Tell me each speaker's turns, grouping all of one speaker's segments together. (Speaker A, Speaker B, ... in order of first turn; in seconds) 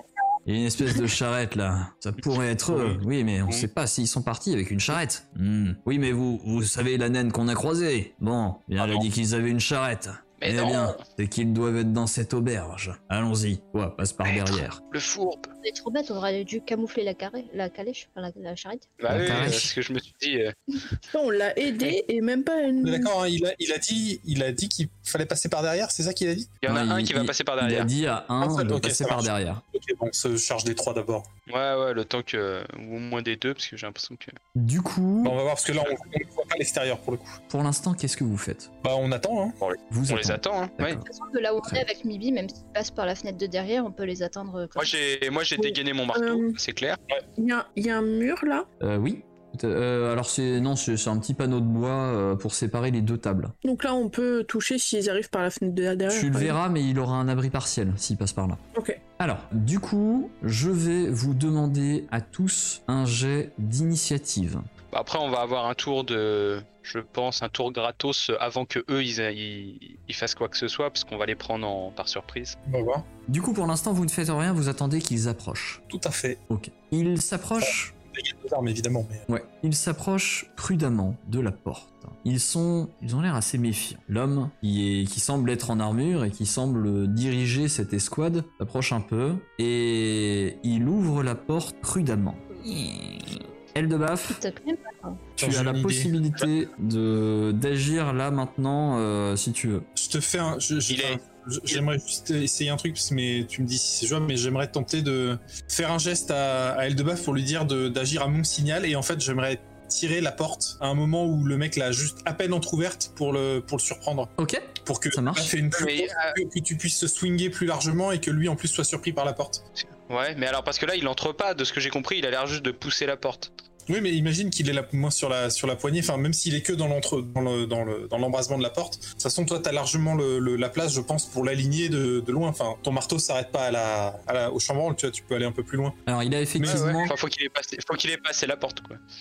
Speaker A: 0.5-14.8, 19.1-19.7, 26.7-29.6, 34.5-35.4, 37.5-38.7, 39.9-41.0, 48.8-53.5, 56.1-58.6, 59.2-64.7, 73.3-75.8, 76.5-77.9, 79.3-94.4, 95.4-99.8, 114.4-115.5, 136.1-137.1
Speaker B: 2.7-3.7, 8.8-9.1, 10.4-11.0, 14.2-15.5, 19.0-20.6, 26.6-27.9, 31.5-34.4, 39.6-41.0, 44.8-47.0, 64.9-72.6, 100.9-101.8, 115.7-116.4, 119.8-123.5, 136.6-139.0
Speaker C: 15.6-19.0, 41.0-44.9, 94.3-95.3
Speaker D: 21.1-23.1, 45.6-46.5, 47.4-48.6, 53.6-56.5, 58.7-59.0
Speaker E: 22.8-26.6, 28.4-31.2, 35.2-37.4, 38.8-39.6, 72.7-73.0, 75.9-76.4, 77.6-79.2, 95.4-96.1, 100.0-114.3, 114.8-119.6, 123.9-136.0, 136.6-137.0